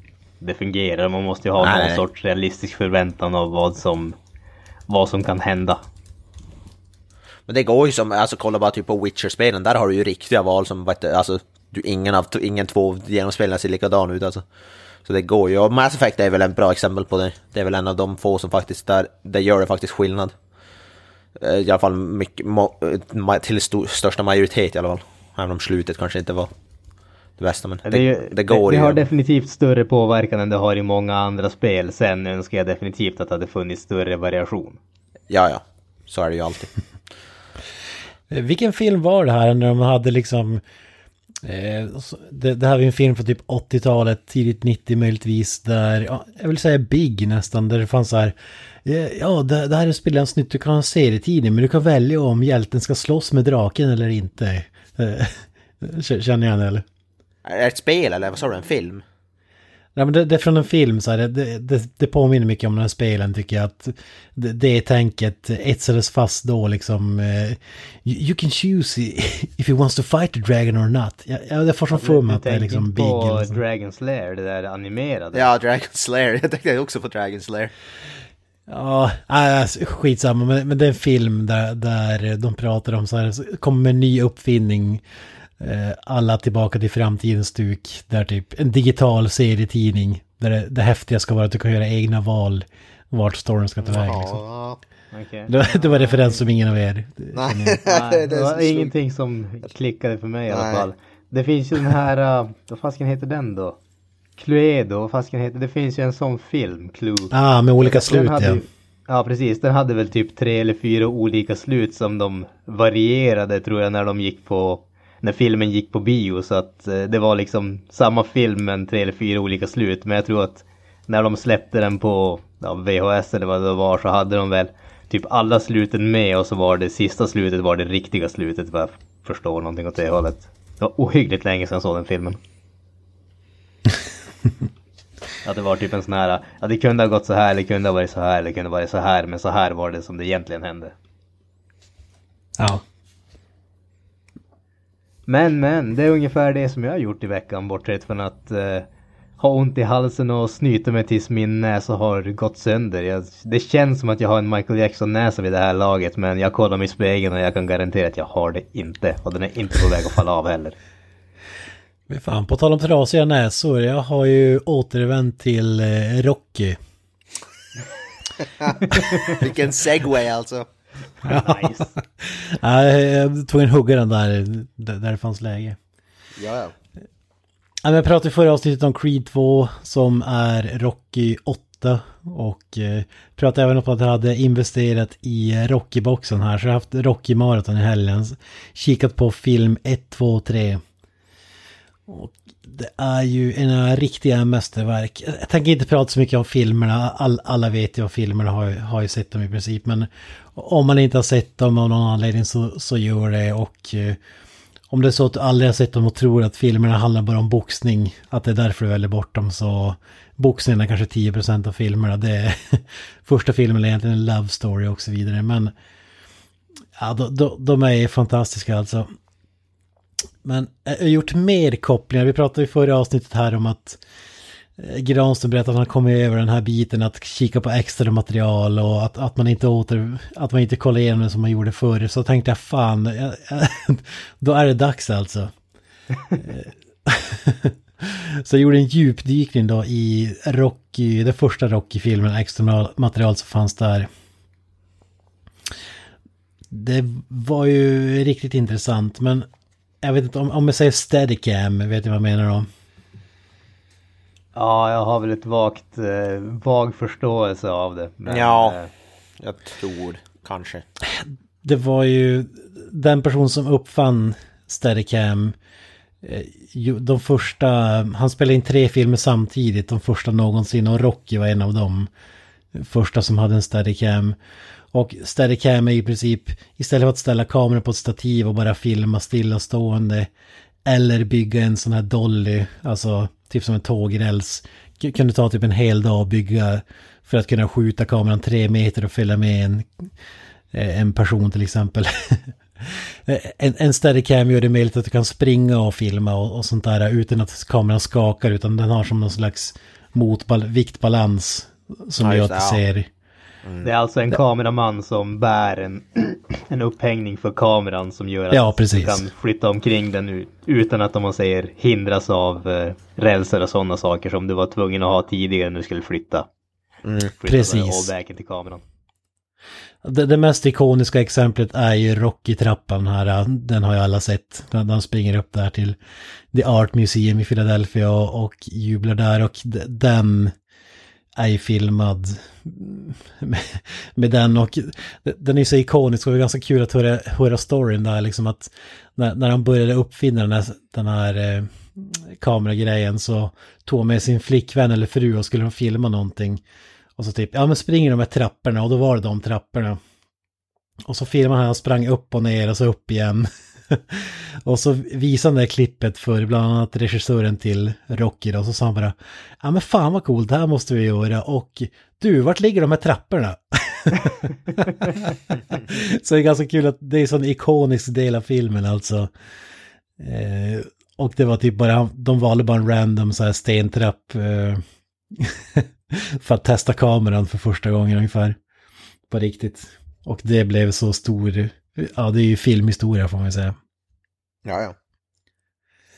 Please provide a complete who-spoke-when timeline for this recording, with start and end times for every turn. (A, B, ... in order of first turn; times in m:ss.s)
0:00.4-0:04.2 A
0:01.6-0:02.0 B
0:04.9-0:05.8 A
0:07.5-0:14.4 B
0:15.0-0:20.3 B
0:21.4-0:26.5 B
0:27.4-0:29.0 B
0:27.8-0:34.8 A
0:35.3-0:36.7 B
0:38.3-0:40.6 C
0:41.4-0:56.8 C
0:57.4-0:59.0 B
0:59.9-1:13.6 C
1:11.9-1:15.5 A
1:15.3-1:17.7 B
1:18.7-1:25.0 C
1:25.6-1:34.4 C
1:33.8-1:34.8 B
1:35.1-1:36.4 A
1:35.5-1:37.8 C
1:37.3-1:38.9 B
1:37.8-1:43.8 A
1:40.5-1:40.9 B
1:44.4-2:12.4 A
1:47.3-1:48.6 C
2:15.4-2:20.9 A
2:25.3-2:28.9 A
2:29.4-2:40.8 A
2:42.1-2:46.8 C
2:48.6-2:50.6 B
2:48.9-2:49.4 A
2:51.2-2:51.9 A
2:51.2-2:55.8 C
2:56.4-2:56.7 B
2:57.8-3:10.8 C
3:12.1-3:24.2 C
3:24.9-3:35.7 C
3:37.0-3:39.1 C
3:40.4-3:44.0 C
3:44.8-3:55.5 C
3:56.4-4:04.1 C
4:06.7-4:09.5 C
4:10.0-4:12.7 C
4:14.5-4:18.9 A
4:18.3-4:18.8 B
4:19.4-4:20.8 B
4:21.0-4:25.6 C
4:26.2-4:32.1 C
4:32.7-4:34.4 C
4:34.9-4:40.3 C
4:40.8-4:50.1 C
4:50.7-5:03.1 C
5:02.2-5:02.8 B
5:03.8-5:16.5 A
5:08.5-5:09.3 C
5:17.0-5:17.3 B
5:17.4-5:18.8 A
5:17.5-5:18.1 C
5:20.0-5:26.0 C
5:26.5-5:30.5 C
5:31.4-5:46.6 C
5:47.2-5:50.0 C
5:51.1-6:09.3 C
6:10.2-6:18.6 C
6:19.3-6:23.7 C
6:24.6-6:24.9 B